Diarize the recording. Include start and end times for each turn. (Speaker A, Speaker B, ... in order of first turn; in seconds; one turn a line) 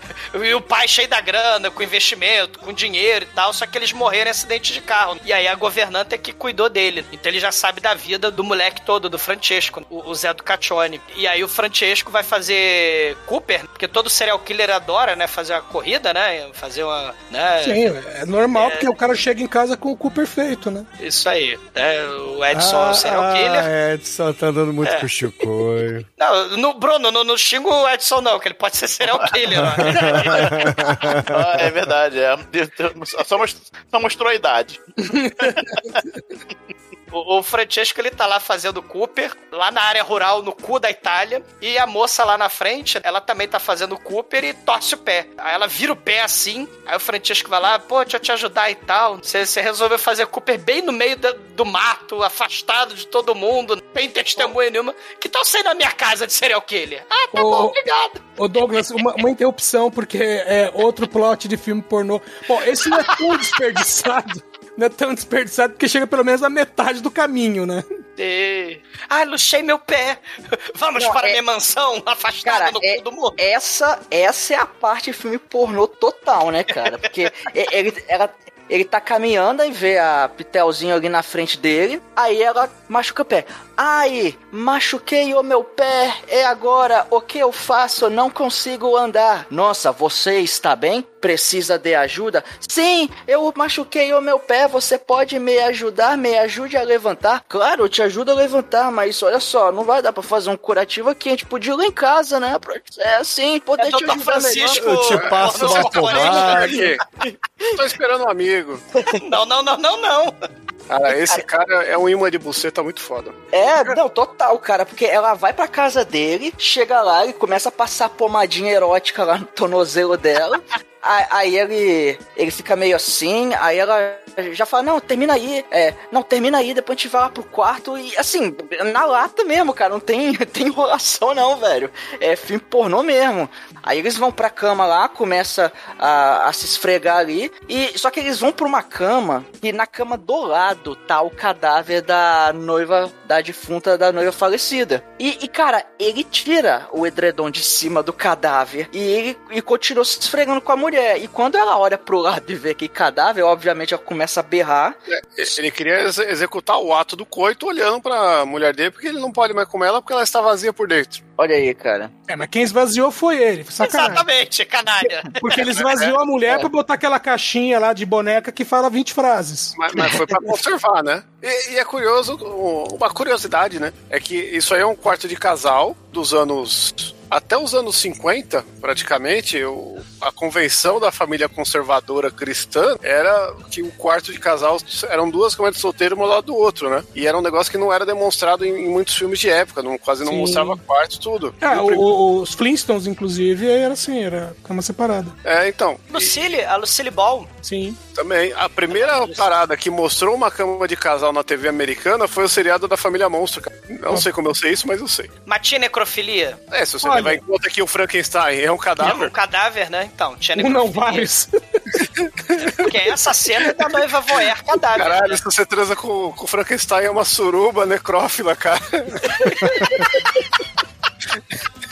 Speaker A: 0.3-17.9
Speaker B: 17.6-20.9
Speaker A: 18.5-18.9
Speaker A: 21.0-23.7
Speaker C: 22.5-26.1
Speaker A: 26.2-31.2
Speaker D: 29.0-34.8
Speaker C: 29.6-31.3
Speaker B: 35.1-35.3
Speaker D: 35.5-35.8
Speaker A: 37.1-59.1
Speaker B: 57.3-57.8
Speaker B: 58.4-67.8
Speaker A: 62.9-63.2
Speaker A: 68.2-73.4
Speaker E: 71.0-71.4
Speaker E: 72.4-105.0
Speaker A: 103.8-106.8
Speaker C: 104.8-106.9
Speaker F: 105.1-107.0
Speaker F: 107.7-108.8
Speaker A: 109.1-110.3
Speaker F: 110.9-113.3
Speaker E: 113.5-154.9
Speaker F: 155.1-161.2
Speaker E: 161.4-162.1
Speaker B: 162.3-164.2
Speaker A: 163.8-165.9
Speaker B: 165.3-169.8
Speaker F: 165.9-166.1
Speaker F: 169.8-192.0
Speaker B: 190.2-190.8
Speaker B: 191.6-195.3
Speaker F: 195.4-196.3
Speaker A: 196.1-197.5
Speaker B: 197.6-198.0
Speaker F: 198.1-205.3
Speaker A: 198.9-199.5
Speaker A: 205.4-206.6
Speaker F: 206.7-209.3
Speaker B: 207.0-207.4
Speaker A: 209.0-211.3
Speaker B: 210.6-211.5
Speaker F: 212.2-212.7
Speaker A: 212.8-215.4
Speaker F: 214.9-220.0
Speaker A: 219.5-219.8